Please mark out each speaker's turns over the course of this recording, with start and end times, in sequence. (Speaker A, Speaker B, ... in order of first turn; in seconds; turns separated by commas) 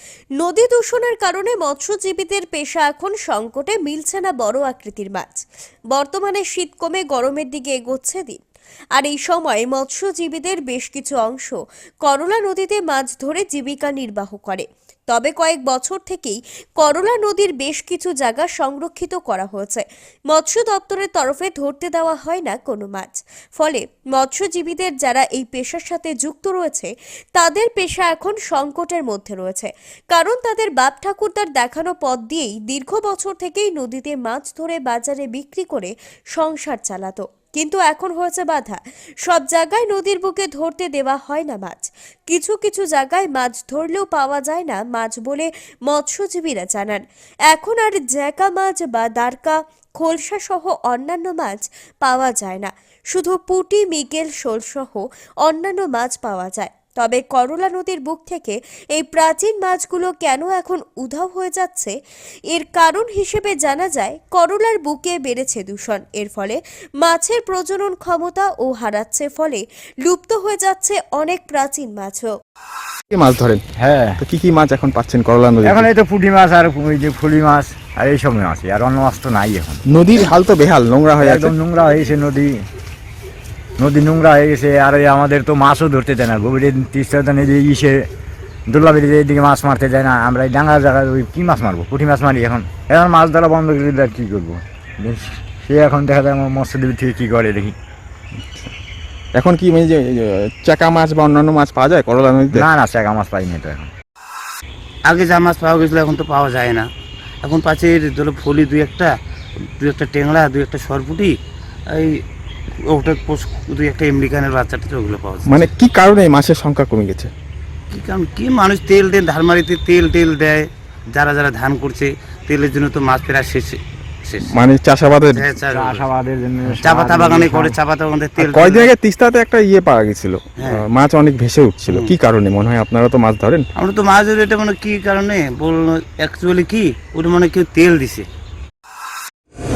Speaker A: 0.4-8.4, Speaker A: 9.0-61.9, Speaker A: 62.5-72.3, Speaker B: 73.1-73.6, Speaker C: 73.8-74.2, Speaker B: 74.2-75.9, Speaker C: 75.6-79.8, Speaker B: 79.9-81.5, Speaker C: 81.2-82.6, Speaker C: 83.8-88.0, Speaker C: 88.7-97.8, Speaker B: 99.3-102.7, Speaker C: 102.5-103.9, Speaker D: 105.1-106.9, Speaker D: 107.4-109.1, Speaker D: 109.8-111.3, Speaker D: 111.9-112.2, Speaker D: 112.9-115.7, Speaker B: 115.5-117.3, Speaker D: 117.9-124.6, Speaker B: 124.5-125.5, Speaker D: 125.3-126.1, Speaker C: 125.7-127.8, Speaker D: 126.8-128.9, Speaker B: 128.4-133.7, Speaker D: 131.9-132.1, Speaker D: 133.8-138.3